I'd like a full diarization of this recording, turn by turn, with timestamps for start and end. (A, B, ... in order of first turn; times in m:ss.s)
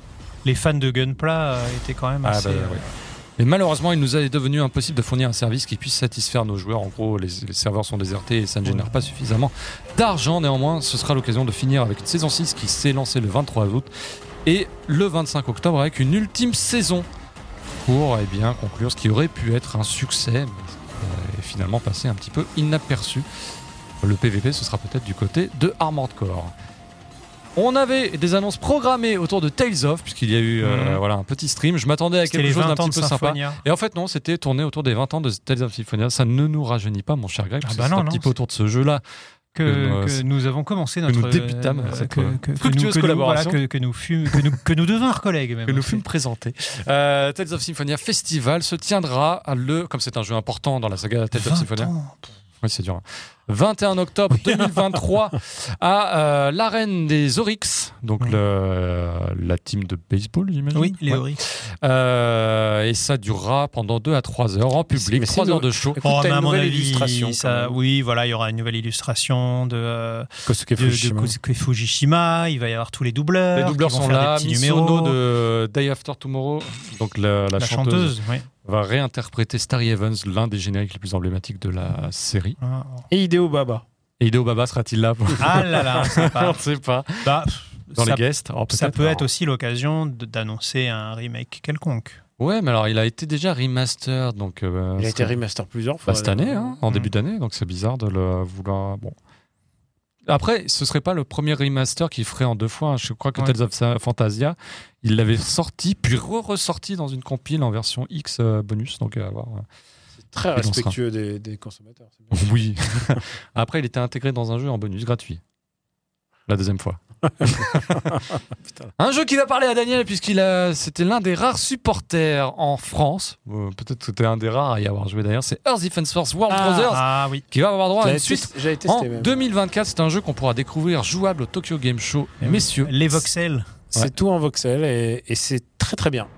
0:00.4-0:02.9 A
0:02.2-0:02.8 B
0:03.4-0:13.9 B
0:08.6-0:09.0 A
0:14.4-0:17.1 B
0:17.8-0:23.3 B
0:24.0-0:26.5 B
0:27.6-0:39.0 B
0:30.6-0:31.0 A
0:32.3-0:33.6 A
0:37.6-0:38.3 A
0:39.6-0:46.0 A
0:39.6-0:40.2 B
0:41.1-0:43.6 B
0:45.7-0:51.9 B
0:51.4-0:52.3 A
0:52.6-1:06.0 B
1:00.7-1:01.4 A
1:05.0-1:07.8 C
1:06.0-1:15.2 A
1:10.5-1:11.4 C
1:13.6-1:22.6 B
1:17.6-1:18.5 A
1:22.6-1:23.1 A
1:23.1-1:23.8 C
1:24.2-1:27.3 B
1:25.4-1:26.6 A
1:27.2-1:32.2 A
1:28.0-1:29.3 B
1:32.4-1:35.4 B
1:35.0-1:36.8 C
1:36.1-1:39.2 B
1:40.3-1:49.7 B
1:50.3-1:52.5 C
1:50.6-1:51.0 B
1:52.3-1:55.4 B
1:56.5-1:58.2 B
1:59.0-2:13.3 B
2:06.5-2:07.0 C
2:06.9-2:07.4 A
2:08.0-2:09.4 C
2:12.4-2:13.7 A
2:13.9-2:16.3 C